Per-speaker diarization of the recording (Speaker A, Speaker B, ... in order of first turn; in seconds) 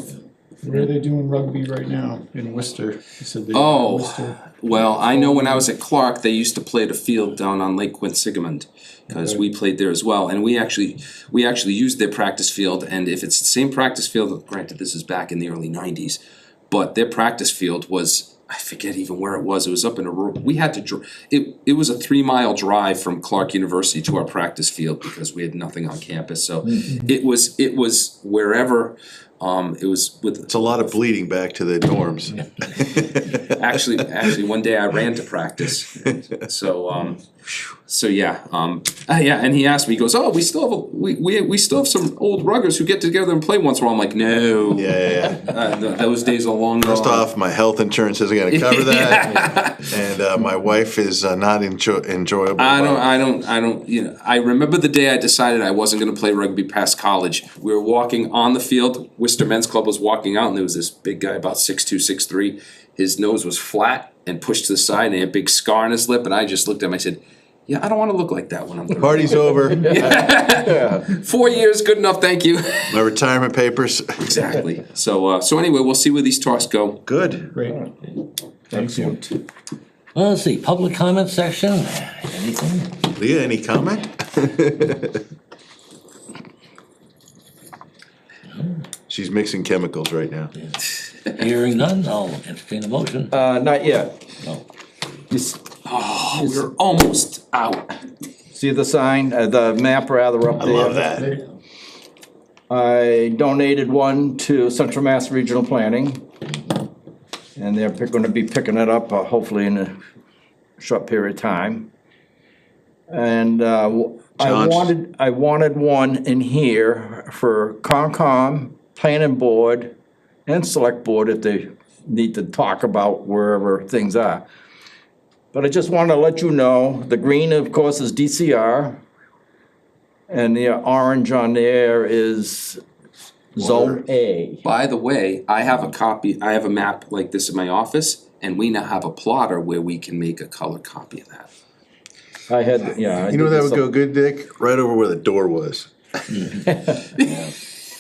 Speaker A: 0.6-4.5, 5.0-5.7, 9.1-9.4, 77.5-77.8, 78.7-79.2
Speaker B: 3.5-30.9, 33.3-37.2, 37.9-47.3, 48.5-49.9, 52.6-73.0, 74.3-77.0, 95.8-97.9, 134.6-141.5
Speaker C: 30.5-33.4, 44.8-45.5, 46.8-53.1, 69.0-70.4, 72.9-74.5, 77.1-77.5, 83.1-85.2, 89.1-90.5, 100.6-101.3, 114.4-114.9, 133.6-134.0, 143.3-145.9
Speaker D: 69.8-71.0, 78.7-79.3, 93.3-94.1, 95.3-95.7, 96.3-96.7, 98.5-101.3, 102.7-106.2, 107.6-110.0, 110.8-111.9, 113.1-119.9, 120.5-124.5, 125.5-129.0, 130.3-132.8, 133.6-134.6, 142.5-143.8, 146.7-147.0
Speaker E: 80.2-83.0, 88.5-88.8, 90.6-93.4, 147.2-147.5